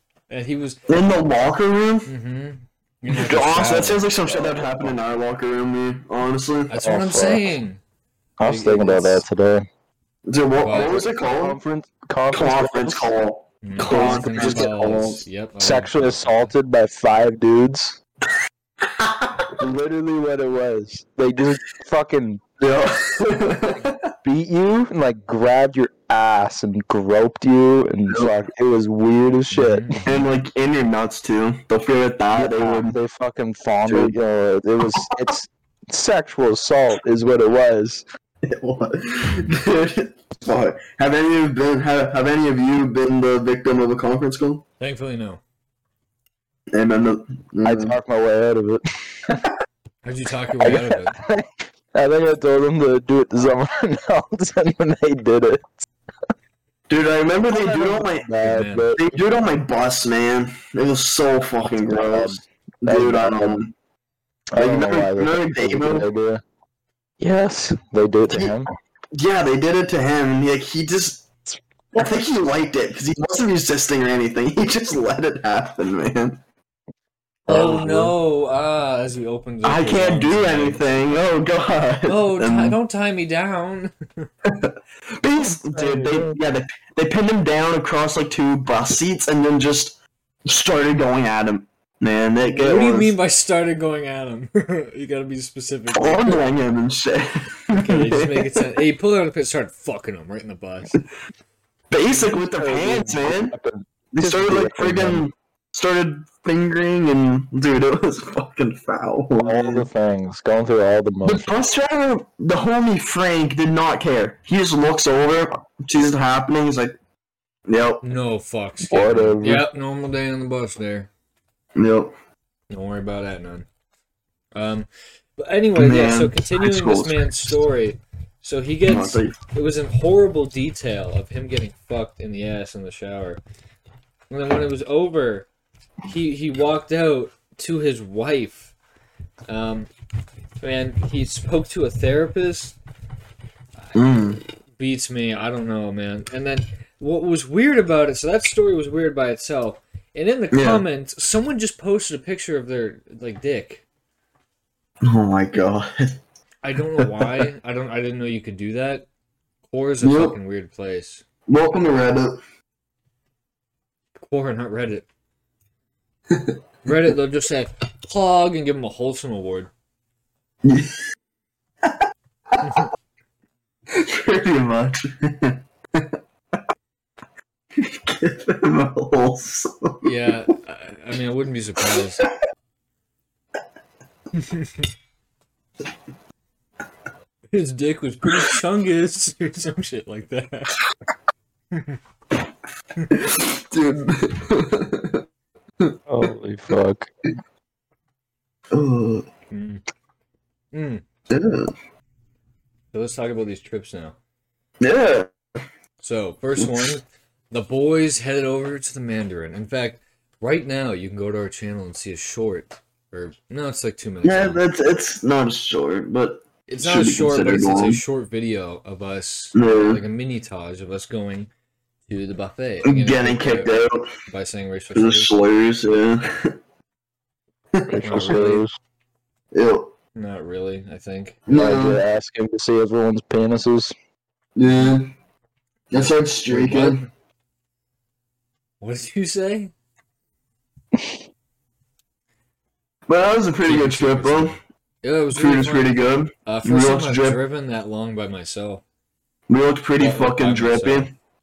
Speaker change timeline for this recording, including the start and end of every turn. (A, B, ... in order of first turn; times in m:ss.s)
0:00.3-0:00.8 A
0:00.9-0:02.1 B
0:02.1-0:04.1 A
0:03.1-0:06.8 B
0:06.7-0:07.8 A
0:06.8-0:07.5 C
0:08.4-0:09.7 C
0:08.4-0:09.3 A
0:10.2-0:11.6 B
0:10.6-0:11.0 A
0:10.8-0:13.1 C
0:12.3-0:15.2 B
0:13.6-0:16.5 A
0:13.8-0:14.7 C
0:15.6-0:18.0 C
0:18.8-0:19.5 B
0:19.6-0:22.4 C
0:22.6-0:24.1 B
0:24.2-0:30.0 C
0:29.5-0:30.2 A
0:30.0-0:33.0 B
0:32.3-0:38.0 C
0:33.8-0:34.2 B
0:38.4-0:44.6 B
0:44.8-0:45.4 A
0:46.7-0:48.0 B
0:47.6-0:49.4 C
0:50.0-0:51.2 A
0:50.6-0:55.8 C
0:56.9-0:58.3 B
0:57.5-0:59.2 C
0:58.4-0:58.9 A
0:59.0-1:03.7 B
1:01.9-1:03.6 C
1:04.5-1:06.4 C
1:04.6-1:06.1 B
1:07.2-1:08.7 C
1:09.1-1:11.2 B
1:11.9-1:16.4 B
1:17.5-1:18.1 B
1:17.5-1:18.1 C
1:17.5-1:21.0 A
1:19.6-1:22.8 B
1:22.0-1:24.3 A
1:24.4-1:33.1 B
1:25.4-1:26.3 C
1:32.4-1:36.4 A
1:35.9-1:38.6 B
1:37.7-1:41.0 A
1:41.9-1:43.5 B
1:42.6-1:45.2 C
1:44.1-1:49.8 B
1:49.4-1:51.5 C
1:51.2-1:56.9 B
1:57.7-1:58.0 B
1:58.0-2:01.1 A
1:58.9-1:59.6 C
2:01.8-2:02.1 B
2:02.7-2:03.7 A
2:04.5-2:13.4 A
2:05.8-2:07.5 B
2:08.9-2:09.4 B
2:14.3-2:15.5 A
2:16.1-2:18.7 A
2:19.5-2:19.9 A
2:20.6-2:22.8 A
2:23.9-2:24.4 B
2:24.7-2:33.8 A
2:30.5-2:30.8 B
2:35.0-2:36.2 B
2:36.6-2:39.0 A
2:37.0-2:37.3 B
2:39.7-2:41.2 A
2:40.0-2:40.4 B
2:41.5-2:42.4 B
2:44.2-2:45.0 A
2:46.8-2:49.7 A
2:50.6-2:51.0 B
2:52.6-2:52.9 A
2:53.9-2:56.1 B
2:57.8-3:00.1 B
3:00.0-3:02.3 A
3:04.3-3:04.9 A
3:07.5-3:10.8 A
3:11.7-3:12.0 A
3:13.0-3:13.3 A
3:13.1-3:15.2 B
3:16.1-3:17.1 C
3:18.7-3:19.3 B
3:19.5-3:19.8 A
3:20.7-3:21.0 A
3:21.3-3:21.7 B
3:22.9-3:24.2 A
3:24.8-3:25.3 B
3:26.0-3:34.6 A
3:26.6-3:27.0 B
3:34.2-3:38.0 B
3:36.7-3:41.5 A
3:39.5-3:40.0 B
3:42.1-3:43.7 A
3:42.8-3:44.1 B
3:44.2-3:45.4 A
3:44.9-3:46.6 B
3:47.7-3:48.4 B
3:47.9-3:48.7 C
3:48.0-3:48.6 A
3:49.5-3:49.9 B
3:50.1-3:51.4 A
3:51.5-3:52.0 B
3:51.5-3:53.9 C
3:54.6-3:55.1 B
3:54.7-3:55.0 A
3:55.9-3:57.0 B
3:55.9-3:57.1 A
3:58.8-3:59.7 A
4:03.1-4:04.6 B
4:03.6-4:08.8 A
4:05.3-4:07.4 B
4:09.5-4:11.1 B
4:10.0-4:11.1 A